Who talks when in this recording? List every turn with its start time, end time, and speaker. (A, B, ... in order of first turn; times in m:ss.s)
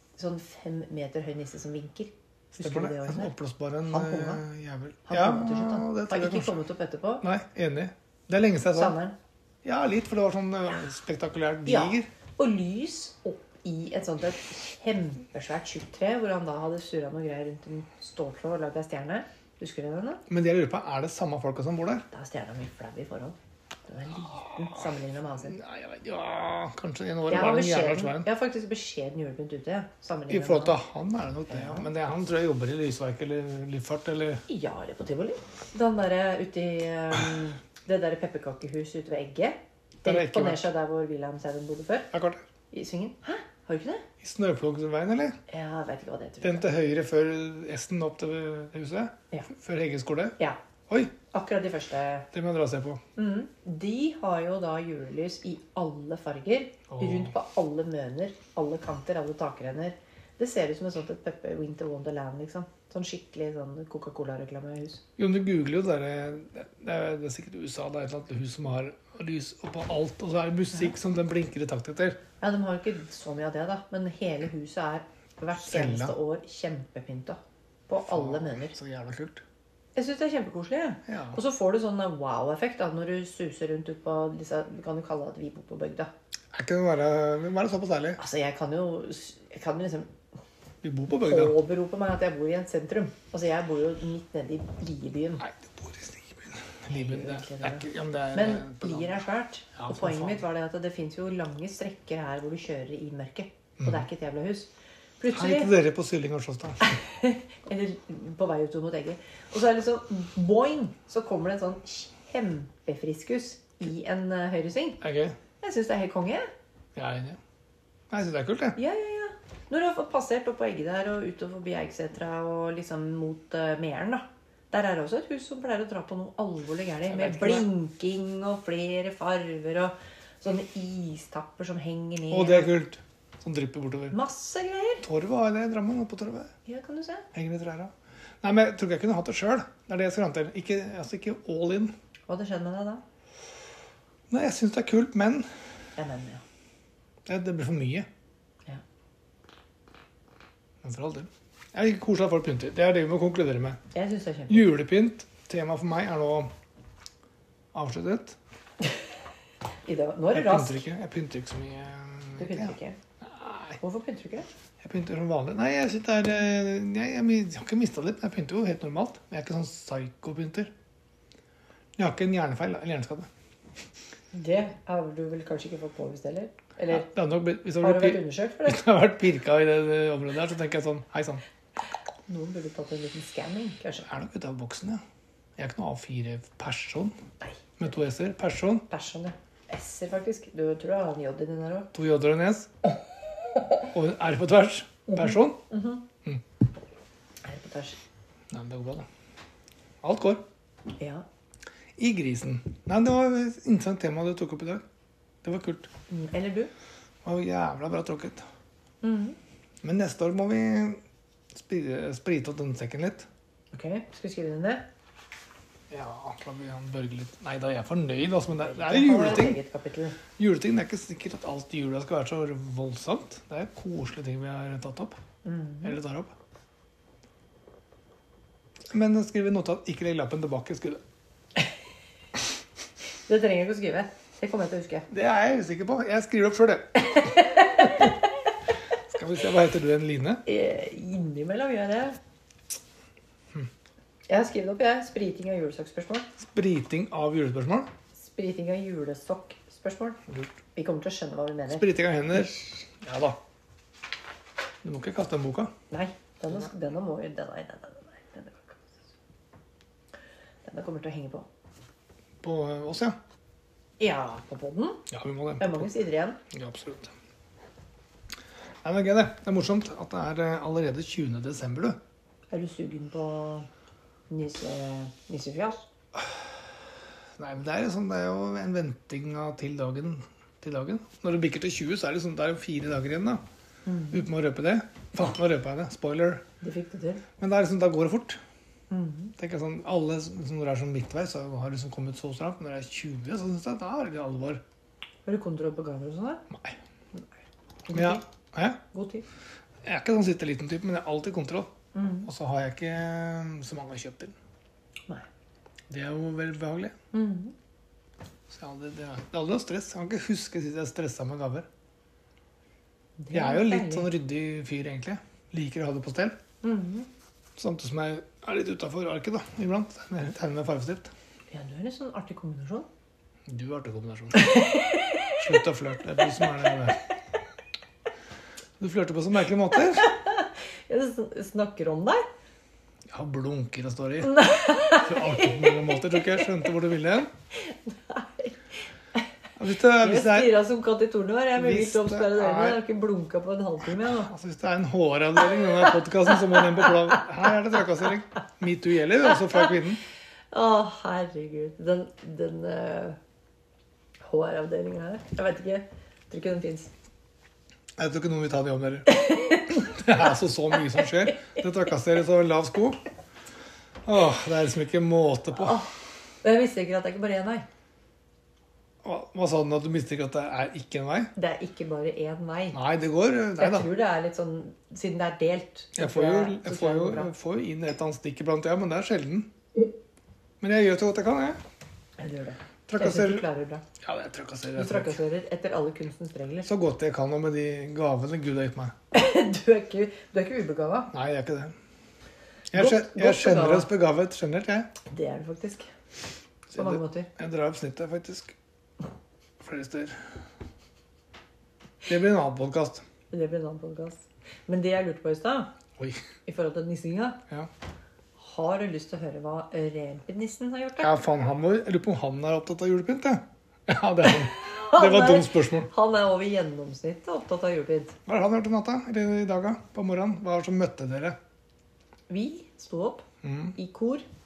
0:00.2-0:03.3 A
0:02.5-0:06.6 B
0:03.9-0:04.4 A
0:05.1-0:07.2 A
0:07.2-0:09.0 B
0:08.7-0:09.1 A
0:09.6-0:12.1 B
0:11.6-0:20.2 A
0:20.3-0:22.0 B
0:22.1-0:25.6 A
0:24.4-0:24.8 B
0:25.4-0:28.3 B
0:27.3-0:30.8 A
0:30.3-0:34.4 B
0:31.5-0:31.9 A
0:34.5-0:42.1 A
0:40.0-0:40.7 B
0:42.1-0:42.4 B
0:42.7-0:44.0 A
0:44.2-0:45.4 B
0:45.5-0:46.7 A
0:46.4-0:50.4 B
0:50.9-0:51.1 B
0:51.3-0:52.3 A
0:52.3-0:53.0 B
0:53.2-1:05.0 A
0:56.9-0:57.3 B
1:05.2-1:12.2 B
1:12.4-1:18.8 A
1:15.6-1:16.2 B
1:18.0-1:19.4 B
1:19.9-1:26.1 A
1:21.1-1:21.4 B
1:26.5-1:28.2 B
1:28.2-1:30.1 A
1:30.8-1:31.6 B
1:31.1-1:35.4 A
1:35.4-1:39.2 B
1:36.9-1:45.7 A
1:39.8-1:40.4 B
1:43.8-1:44.0 B
1:45.3-1:47.0 B
1:46.8-1:55.0 A
1:55.0-1:55.4 B
1:55.6-1:56.5 A
1:57.0-1:57.4 B
1:58.1-1:58.8 B
1:58.8-2:12.7 A
2:07.1-2:07.7 B
2:12.3-2:14.2 B
2:14.1-2:15.0 A
2:15.0-2:16.5 B
2:16.6-2:17.3 A
2:17.3-2:21.9 B
2:22.3-2:23.0 A
2:24.3-2:25.5 B
2:26.0-2:26.4 A
2:27.2-2:28.1 B
2:30.8-2:33.8 B
2:33.9-2:34.7 A
2:34.5-2:36.5 B
2:37.7-2:38.4 B
2:39.8-2:40.8 A
2:40.3-2:43.8 B
2:42.4-2:43.0 A
2:43.8-2:44.5 A
2:44.8-2:50.7 B
2:52.0-2:53.3 B
2:54.3-2:57.1 A
2:56.9-3:01.4 B
2:57.8-2:58.8 A
3:02.3-3:04.1 A
3:04.0-3:05.0 B
3:05.6-3:07.1 B
3:07.4-3:07.7 A
3:07.8-3:08.8 B
3:08.9-3:11.9 A
3:11.9-3:12.7 B
3:13.9-3:15.6 B
3:15.1-3:16.0 A
3:17.4-3:18.0 A
3:18.5-3:19.1 B
3:20.0-3:20.4 B
3:21.0-3:21.2 A
3:22.0-3:24.8 B
3:25.4-3:25.9 B
3:26.1-3:26.7 A
3:27.2-3:28.4 B
3:29.0-3:29.4 A
3:29.8-3:31.0 B
3:31.5-3:33.3 B
3:33.7-3:34.8 A
3:35.9-3:39.6 B
3:38.6-3:40.2 A
3:40.4-3:45.2 B
3:45.4-3:46.0 A
3:45.8-3:46.3 B
3:48.9-3:51.0 B
3:53.3-3:55.1 A
3:55.1-3:57.8 B
3:57.0-3:58.3 A
3:59.0-4:00.4 B
4:00.4-4:02.2 A
4:04.3-4:06.3 A
4:06.4-4:07.9 B
4:08.1-4:10.2 A
4:10.7-4:11.8 A
4:11.7-4:13.4 B
4:14.8-4:15.7 B
4:15.9-4:19.0 A
4:20.6-4:21.5 A
4:22.4-4:23.2 B
4:24.0-4:25.0 A
4:25.1-4:25.9 B
4:25.6-4:26.4 A
4:26.5-4:27.1 B
4:28.8-4:32.0 B
4:32.5-4:33.7 A
4:34.3-4:35.9 A
4:37.4-4:43.4 B
4:43.8-4:44.2 A
4:44.1-4:46.4 B
4:46.6-4:47.2 A
4:47.4-4:48.4 B
4:48.9-4:49.3 A
4:49.4-4:54.6 B
4:55.2-4:56.4 A
4:56.5-4:56.8 B
4:57.9-4:58.2 A
4:57.9-4:58.8 B
4:58.9-4:59.2 A
4:59.8-5:01.7 B
5:01.9-5:02.3 A
5:02.2-5:04.3 B
5:05.9-5:06.9 B
5:07.1-5:07.5 A
5:08.5-5:11.7 B
5:13.2-5:14.1 A
5:13.3-5:16.4 B
5:16.6-5:17.1 A
5:17.6-5:21.1 B
5:21.5-5:22.9 A
5:23.5-5:24.6 B
5:24.3-5:25.4 A
5:25.4-5:27.0 B
5:28.8-5:30.1 B
5:30.0-5:32.2 A
5:33.1-5:37.3 B
5:34.2-5:36.4 A
5:37.5-5:38.6 A
5:39.6-5:40.6 B
5:40.0-5:44.3 A
5:41.6-5:42.8 B
5:43.9-5:50.0 B
5:45.6-5:47.2 A
5:50.5-5:53.2 A
5:54.2-5:56.9 A
5:58.0-5:59.1 B
5:59.1-6:00.0 A
5:59.7-6:03.0 B
6:01.0-6:01.3 A
6:04.0-6:05.8 B
6:05.5-6:05.9 A
6:06.4-6:07.6 A
6:09.0-6:11.3 B
6:11.3-6:12.8 A
6:12.7-6:13.9 B
6:13.6-6:17.3 A
6:15.9-6:19.5 B
6:20.6-6:21.6 B
6:22.2-6:23.8 A
6:22.9-6:23.4 B
6:24.0-6:25.2 B
6:24.8-6:26.7 A
6:26.6-6:28.9 B
6:29.1-6:31.1 A
6:31.1-6:31.7 B
6:32.7-6:34.9 B
6:32.7-6:33.9 A
6:35.0-6:35.9 A
6:36.7-6:38.5 B
6:36.7-6:37.3 A
6:39.6-6:40.2 B
6:42.0-6:43.0 B
6:43.3-6:45.7 A
6:46.4-6:47.4 A
6:48.4-6:51.2 A
6:51.0-6:55.9 B
6:54.2-6:58.2 A
6:58.2-7:01.4 B
7:02.3-7:04.2 A
7:03.4-7:03.8 B